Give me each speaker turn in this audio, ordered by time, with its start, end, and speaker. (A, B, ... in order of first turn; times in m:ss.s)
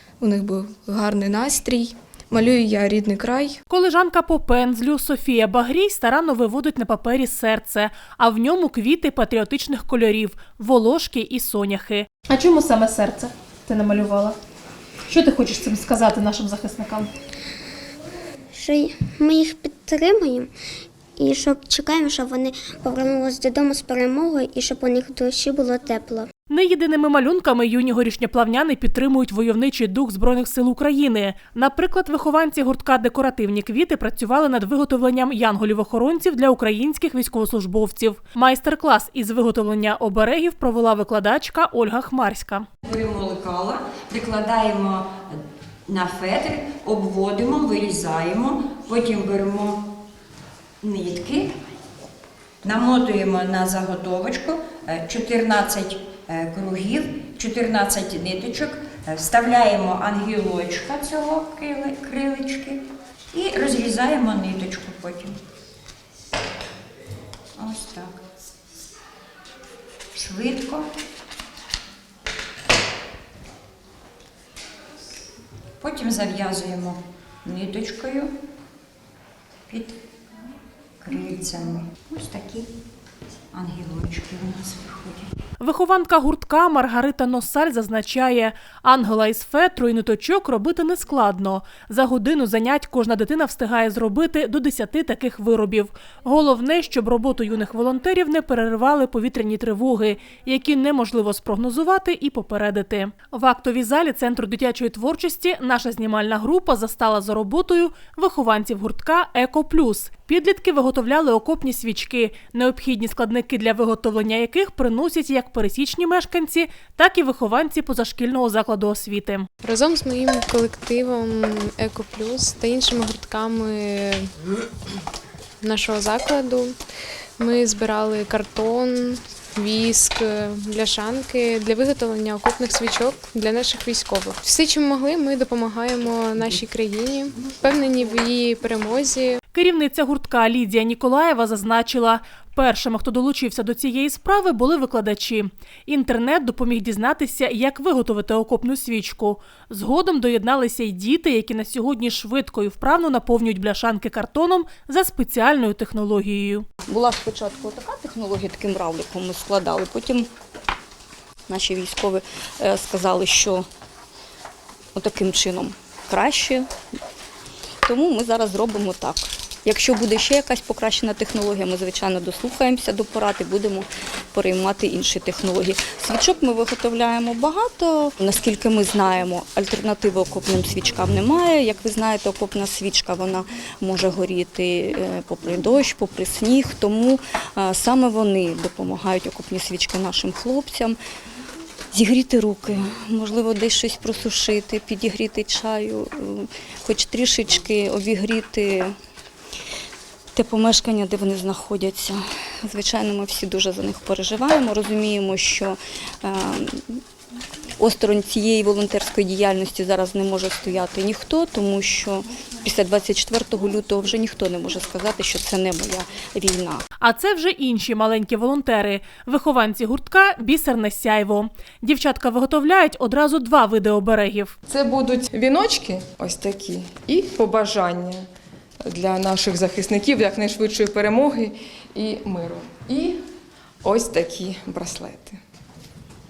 0:00.2-0:03.6 A
0:03.7-0:14.4 B
0:15.1-0:17.1 B
0:18.5-0:20.5 C
0:21.2-0:26.3 C
0:26.5-0:42.6 B
0:42.8-0:45.2 D
0:45.9-0:49.8 D
0:50.8-0:51.5 D
0:52.6-1:02.8 D
1:03.3-1:05.3 D
1:07.6-1:08.1 D
1:10.1-1:10.9 D
1:15.8-1:18.3 D
1:19.7-1:20.0 D
1:21.0-1:22.6 D
1:23.5-1:25.3 D
1:25.6-1:59.5 B
1:59.6-2:04.3 E
2:05.6-2:06.8 E
2:07.4-2:19.4 E
2:19.5-2:36.6 B
2:36.9-2:40.3 F
2:41.5-2:43.6 F
2:44.9-2:46.7 F
2:47.8-3:11.0 F
3:11.9-3:18.9 F
3:20.3-3:27.0 F
3:27.8-3:36.8 F
3:37.0-3:44.5 B
3:44.7-3:48.2 G
3:48.8-3:53.2 G
3:53.8-3:55.4 G